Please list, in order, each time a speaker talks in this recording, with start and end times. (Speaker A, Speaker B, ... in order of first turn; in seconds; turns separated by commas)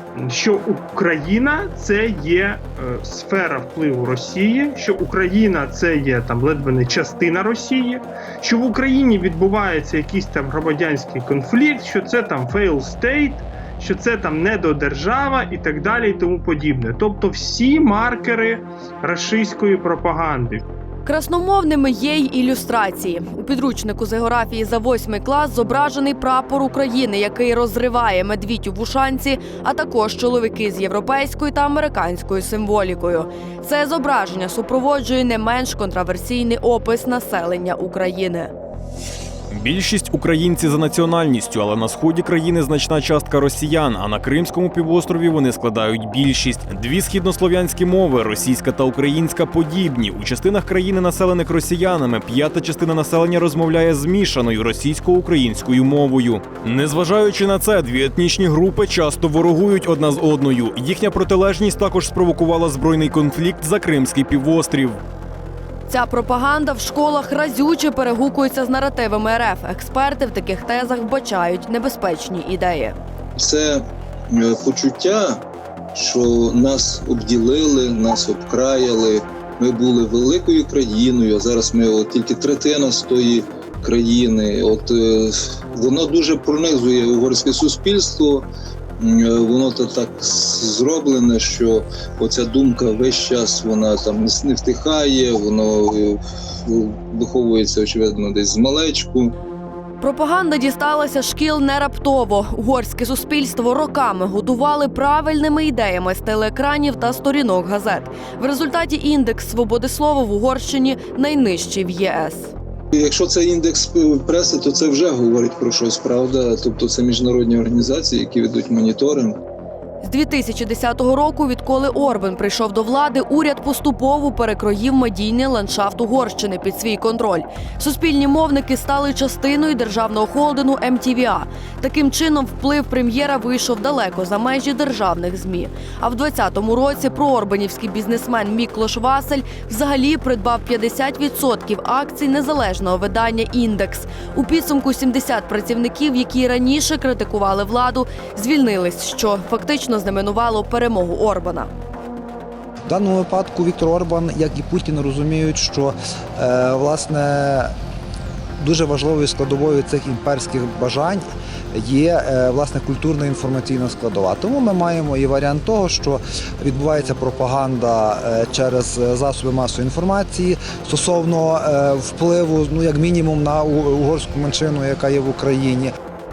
Speaker A: 0.2-20.6, Speaker B: 21.1-38.5, Speaker C: 39.5-65.0, Speaker B: 65.9-73.0, Speaker D: 73.4-73.8, Speaker D: 74.3-75.4, Speaker D: 75.9-88.5, Speaker D: 89.0-99.3, Speaker B: 100.0-112.5, Speaker D: 112.9-119.4, Speaker B: 120.0-151.7, Speaker E: 152.9-157.7, Speaker E: 158.6-175.9